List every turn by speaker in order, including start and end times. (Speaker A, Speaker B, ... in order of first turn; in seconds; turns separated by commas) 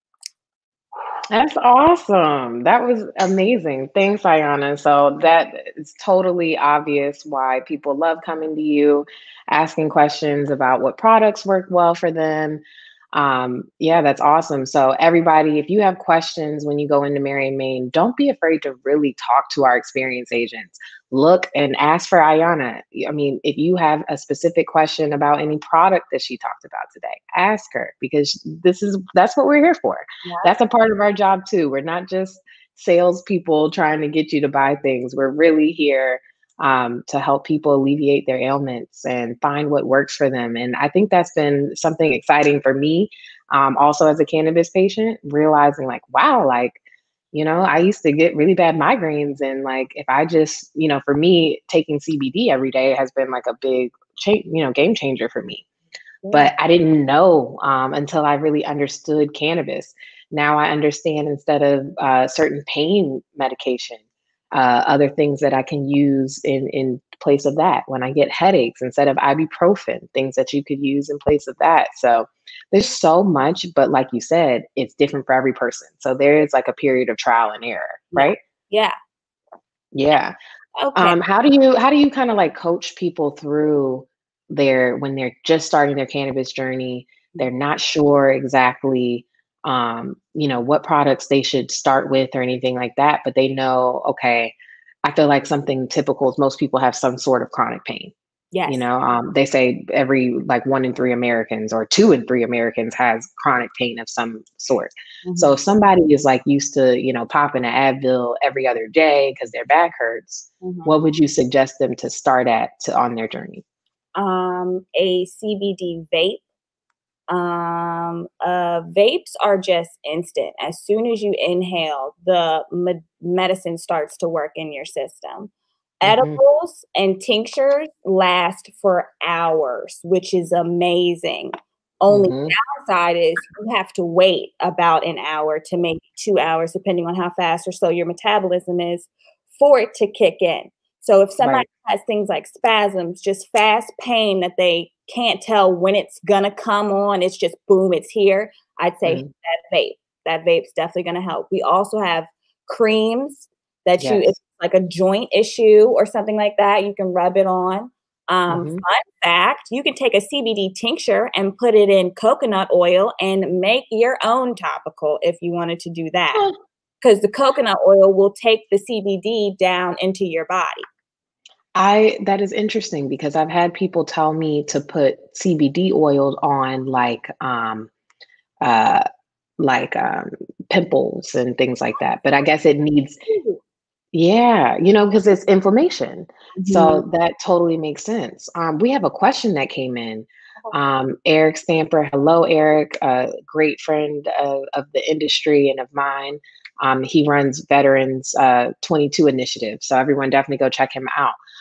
Speaker A: 1.3-46.8, Speaker B: 30.2-30.5, Speaker A: 47.3-55.6, Speaker B: 56.2-56.5, Speaker A: 56.3-78.4, Speaker B: 78.1-78.9, Speaker A: 79.9-80.3, Speaker B: 80.8-81.2, Speaker A: 80.9-98.1, Speaker B: 98.5-98.9, Speaker A: 98.7-113.6, Speaker B: 105.2-105.5, Speaker B: 110.6-110.9, Speaker B: 114.2-116.4, Speaker B: 117.3-125.5, Speaker B: 126.0-131.5, Speaker A: 126.0-126.4, Speaker B: 132.0-166.5, Speaker A: 132.1-132.5, Speaker A: 141.4-141.7, Speaker A: 154.0-154.3, Speaker A: 158.5-158.8, Speaker B: 167.0-170.8, Speaker A: 171.8-177.9, Speaker A: 178.6-179.0, Speaker A: 179.6-183.2, Speaker B: 183.3-183.6, Speaker A: 184.1-201.3, Speaker B: 186.6-187.0